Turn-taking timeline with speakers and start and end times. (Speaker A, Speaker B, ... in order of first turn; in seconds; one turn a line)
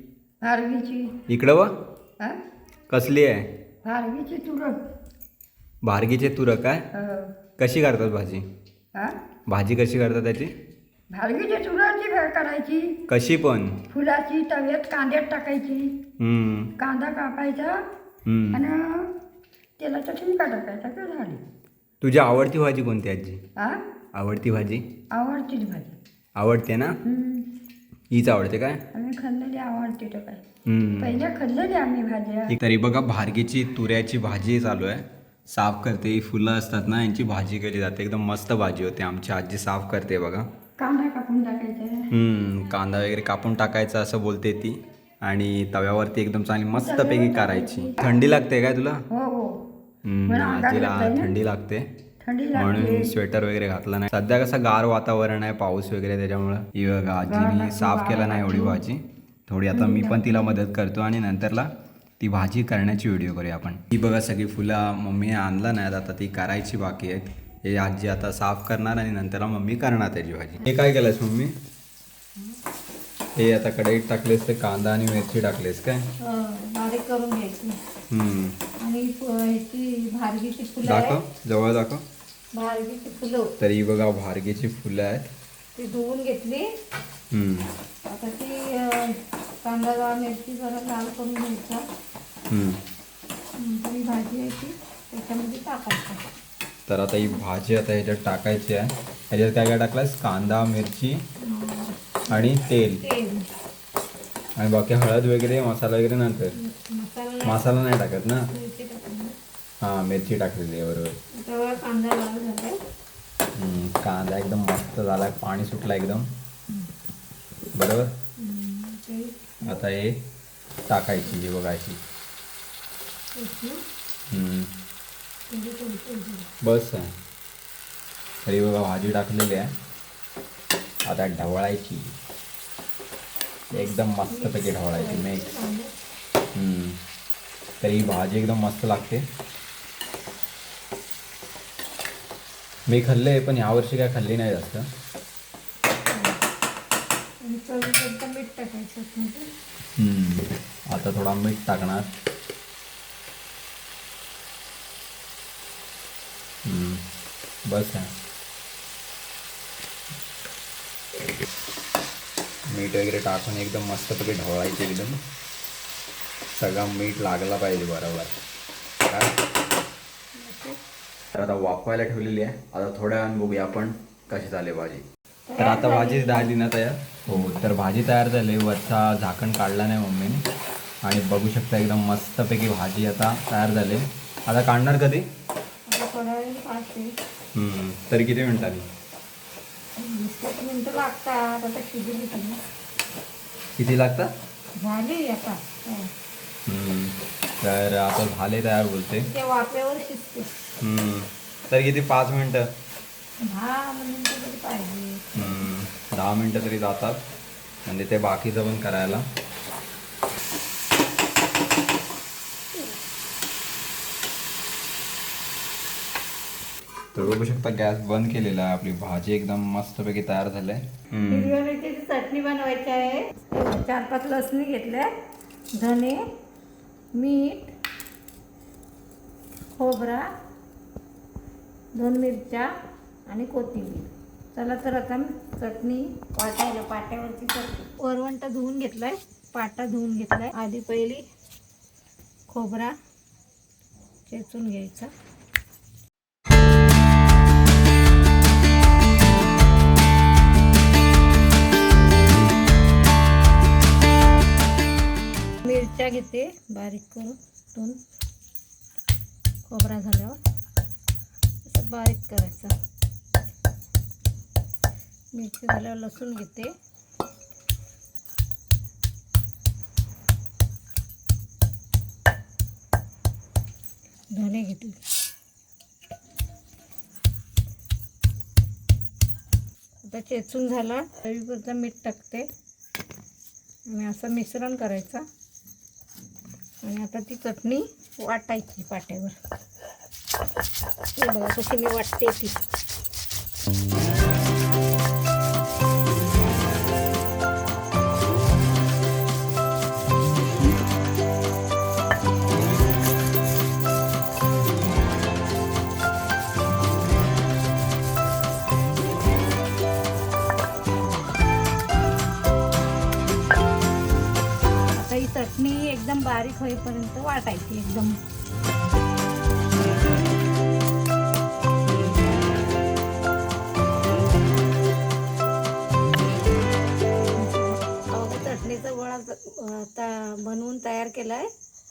Speaker A: 0.4-1.2
Speaker B: 1.3-1.7
Speaker B: 2.9-3.5
Speaker A: 3.8-4.8
Speaker B: 5.8-6.9
Speaker A: 6.9-7.4
Speaker B: 7.6-8.4
Speaker B: 9.5-10.5
Speaker A: 11.1-13.0
Speaker B: 13.1-13.8
Speaker A: 13.9-16.0
Speaker B: 16.2-16.7
Speaker A: 16.8-17.8
Speaker B: 18.2-18.6
Speaker A: 18.5-19.1
Speaker A: 19.8-21.4
Speaker B: 22.0-23.4
Speaker A: 23.6-23.8
Speaker B: 24.1-24.9
Speaker A: 25.1-25.9
Speaker B: 26.4-27.0
Speaker A: 27.0-27.5
Speaker B: 28.1-28.8
Speaker A: 28.9-30.4
Speaker B: 30.6-31.2
Speaker A: 31.0-32.6
Speaker B: 32.5-40.5
Speaker A: 40.8-42.1
Speaker B: 42.1-49.0
Speaker A: 46.7-48.1
Speaker A: 49.1-49.6
Speaker B: 50.0-51.9
Speaker A: 50.3-51.4
Speaker A: 52.2-53.1
Speaker B: 52.5-71.5
Speaker A: 57.3-58.8
Speaker A: 59.8-60.4
Speaker B: 73.3-76.0
Speaker C: 76.2-77.8
Speaker B: 78.1-78.6
Speaker C: 78.8-81.2
Speaker B: 80.8-82.0
Speaker C: 82.5-83.5
Speaker B: 83.6-85.3
Speaker C: 85.8-86.7
Speaker B: 87.3-87.7
Speaker C: 88.0-91.8
Speaker B: 92.5-92.8
Speaker C: 93.5-96.2
Speaker B: 96.9-101.2
Speaker C: 101.4-102.5
Speaker B: 102.3-103.0
Speaker C: 103.0-103.5
Speaker B: 104.6-106.5
Speaker C: 106.5-107.8
Speaker B: 107.4-108.5
Speaker C: 108.4-109.3
Speaker B: 109.8-111.1
Speaker C: 111.4-112.8
Speaker B: 113.5-116.3
Speaker B: 117.7-118.2
Speaker C: 118.4-119.8
Speaker B: 119.6-120.2
Speaker B: 120.9-122.0
Speaker C: 123.3-123.8
Speaker B: 124.3-124.7
Speaker C: 125.5-126.5
Speaker B: 126.6-127.1
Speaker B: 128.4-129.7
Speaker B: 131.1-132.1
Speaker B: 133.7-135.5
Speaker C: 133.7-135.9
Speaker B: 136.5-137.0
Speaker B: 137.8-139.2
Speaker B: 142.9-144.8
Speaker C: 146.1-146.4
Speaker C: 147.4-149.4
Speaker B: 150.0-152.1
Speaker B: 156.7-157.0
Speaker B: 157.7-158.1
Speaker B: 162.7-165.2
Speaker B: 166.5-168.3
Speaker B: 169.1-169.3
Speaker C: 170.3-170.8
Speaker B: 171.3-175.0
Speaker C: 175.5-176.5
Speaker B: 175.6-180.4
Speaker B: 181.0-185.2
Speaker C: 185.9-187.1
Speaker B: 187.5-188.8
Speaker C: 190.0-192.6
Speaker B: 193.8-194.3
Speaker C: 194.8-196.1
Speaker B: 196.7-199.3
Speaker C: 199.2-200.5
Speaker B: 200.8-202.6
Speaker C: 203.4-205.5
Speaker B: 205.3-207.2
Speaker B: 207.8-209.2
Speaker B: 217.1-221.5
Speaker C: 221.2-225.1
Speaker C: 225.8-226.2
Speaker C: 227.2-227.7
Speaker C: 229.8-230.3
Speaker C: 231.9-232.7
Speaker C: 233.3-241.2
Speaker C: 242.5-242.9
Speaker C: 244.3-245.1
Speaker C: 255.6-258.0
Speaker C: 259.7-260.4
Speaker C: 261.6-262.7
Speaker C: 265.3-266.7
Speaker C: 274.3-275.0
Speaker C: 280.0-282.5
Speaker C: 283.9-285.2
Speaker C: 286.8-289.4
Speaker C: 291.1-292.6
Speaker C: 314.9-318.2
Speaker C: 327.2-331.5